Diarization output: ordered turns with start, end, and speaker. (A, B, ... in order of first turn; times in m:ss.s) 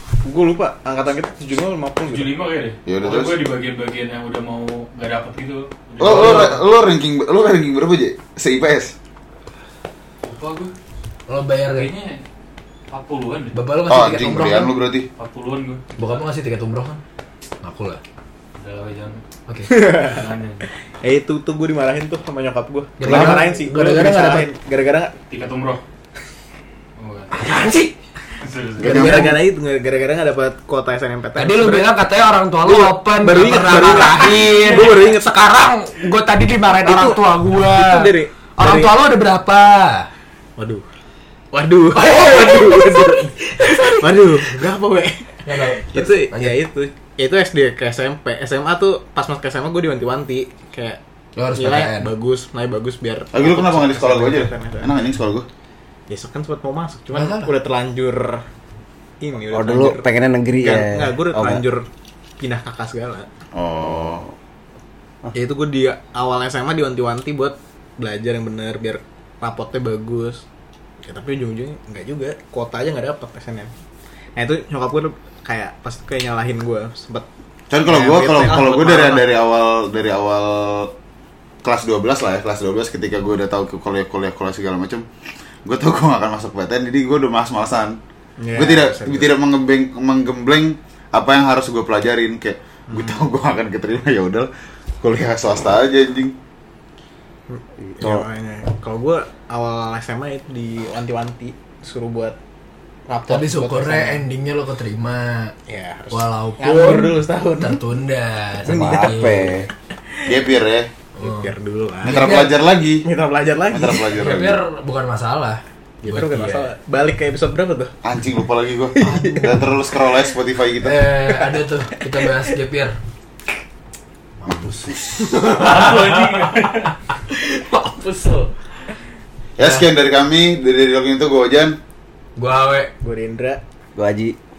0:00.2-0:02.3 A
0:02.0-0:06.6 B
0:02.8-0:03.4 C
0:06.0-0:08.9 C
0:06.0-0:06.6 D
0:10.2-0:10.7 B
0:11.3-0:11.9 D
0:11.7-0:12.2 B
0:12.9-0:13.6 B
0:13.5-0:14.7 D
0:13.9-0:15.1 C
0:15.2-0:15.8 B
0:16.0-0:17.0 D
0:17.6-0:18.0 D
0:18.6-0:20.7 B
0:19.5-0:19.8 D
0:19.7-0:20.2 A
0:21.0-0:25.1 A
0:23.0-0:24.5 D
0:23.0-0:23.4 C
0:25.3-0:25.8 B
0:27.0-0:27.6 B
0:27.3-0:27.9 D
0:28.4-0:29.2 B
0:28.8-0:31.9 A
0:28.8-0:29.3 C
0:28.8-0:29.4 D
0:31.4-0:40.1 D
0:32.6-0:35.4 A
0:36.8-0:38.9 A
0:40.6-0:40.8 A
0:41.5-0:51.0 A
0:41.9-0:44.0 D
0:45.4-0:46.6 D
0:51.4-0:52.1 D
0:51.6-0:54.9 A
0:53.3-0:55.5 C
0:56.1-0:58.4 A
0:57.1-0:57.5 D
0:59.2-1:01.8 A
0:59.5-1:01.6 E
1:02.4-1:03.3 A
1:03.5-1:04.2 C
1:03.8-1:04.3 E
1:05.3-1:10.4 A
1:11.1-1:13.7 A
1:14.4-1:17.3 A
1:17.7-1:20.9 C
1:17.8-1:19.3 A
1:21.6-1:25.0 C
1:25.6-1:28.0 C
1:28.4-1:29.3 A
1:28.5-1:34.5 C
1:32.9-1:33.2 A
1:35.0-1:36.3 C
1:37.5-1:42.4 A
1:37.9-1:38.2 E
1:43.1-1:44.2 A
1:43.3-1:45.5 D
1:45.7-1:47.8 A
1:46.1-1:49.6 D
1:48.6-1:49.7 E
1:50.2-1:50.9 C
1:51.2-1:51.5 D
1:51.2-1:52.5 A
1:52.0-1:53.0 C
1:52.0-1:52.5 D
1:53.0-1:54.1 A
1:53.7-1:54.6 C
1:54.1-1:56.7 D
1:56.0-1:57.9 A
1:58.0-2:01.0 C
1:58.9-1:59.4 A
1:59.0-1:59.6 D
2:00.8-2:02.9 D
2:04.4-2:08.5 D
2:04.5-2:05.3 C
2:05.5-2:06.9 B
2:05.5-2:06.8 A
2:09.6-2:11.8 C
2:12.4-2:12.9 D
2:13.0-2:13.6 A
2:14.0-2:14.4 E